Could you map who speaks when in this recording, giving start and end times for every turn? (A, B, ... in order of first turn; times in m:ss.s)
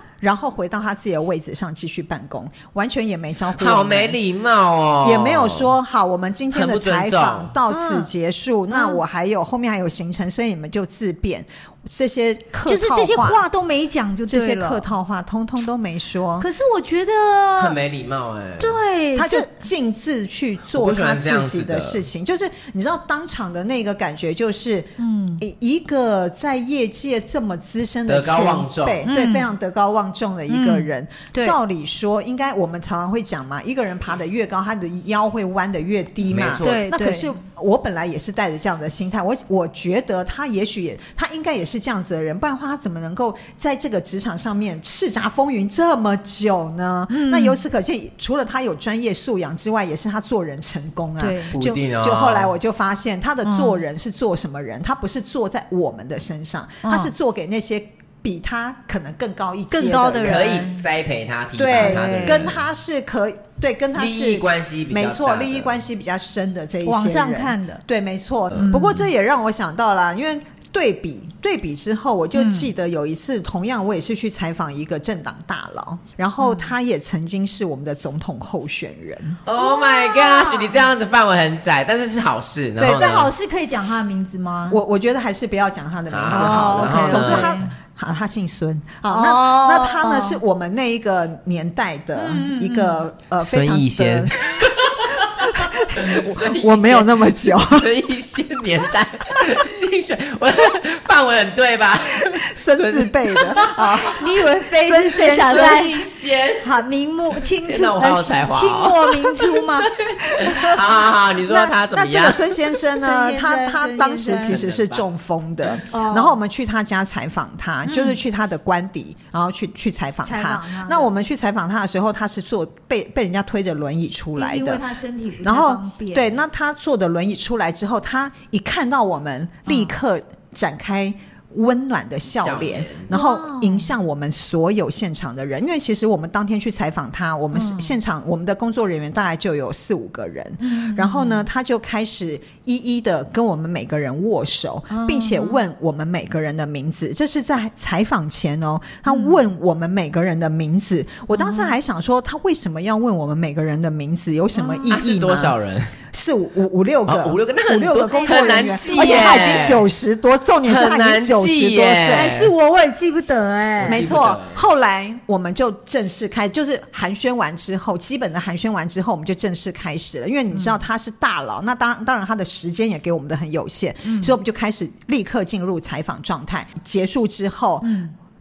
0:00.2-0:04.2 A
0:03.5-0:05.7 B
0:05.0-0:13.4 A
0:06.5-0:07.5 B
0:07.7-0:08.1 C
0:08.7-0:09.0 C
0:12.6-0:14.8 C
0:14.3-0:16.5 A
0:16.4-0:17.8 C
0:17.6-0:18.8 B
0:18.6-0:19.5 C
0:19.1-1:00.7 A
0:20.7-0:22.0 B
0:25.0-0:25.4 C
0:28.1-0:29.0 B
0:29.0-0:29.5 C
0:30.5-0:31.6 C
0:36.3-0:36.8 B
0:36.6-0:37.3 C
0:47.1-0:47.6 C
0:51.2-0:51.5 C
0:51.5-0:52.5 B
0:53.4-0:53.8 C
0:56.8-0:57.1 C
0:59.7-1:00.8 C
1:00.2-1:02.6 B
1:01.6-1:19.4 A
1:01.7-1:02.5 C
1:04.0-1:05.8 B
1:06.8-1:07.8 C
1:08.5-1:09.0 C
1:12.3-1:12.7 C
1:16.4-1:16.7 C
1:19.4-1:23.3 B
1:19.6-1:20.8 C
1:22.8-1:23.3 A
1:22.8-1:24.8 C
1:24.7-1:37.9 A
1:26.1-1:27.6 B
1:26.3-1:27.7 C
1:29.1-1:30.4 C
1:32.2-1:33.0 C
1:33.4-1:44.1 B
1:42.1-1:44.2 A
1:44.1-1:46.0 C
1:44.8-1:45.9 A
1:45.3-1:46.7 B
1:46.6-1:50.8 C
1:47.6-1:52.5 B
1:51.4-2:04.8 A
1:52.9-1:54.6 C
1:54.4-1:55.0 B
1:55.9-1:56.4 C
1:57.8-1:58.2 C
2:00.2-2:01.1 C
2:04.4-2:06.4 C
2:05.4-2:35.6 A
2:09.6-2:10.0 C
2:12.3-2:13.1 B
2:13.1-2:13.9 C
2:17.5-2:18.0 C
2:20.6-2:21.5 C
2:24.9-2:25.6 C
2:29.1-2:29.4 C
2:31.3-2:31.7 C
2:34.5-2:34.9 C
2:34.9-2:35.9 B
2:36.1-2:42.4 A
2:37.1-2:39.8 B
2:38.1-2:39.8 C
2:40.6-2:42.5 B
2:42.1-2:44.1 C
2:43.8-2:44.6 B
2:43.8-2:57.9 A
2:50.5-2:50.8 C
2:54.0-2:54.3 C
2:57.8-2:58.1 C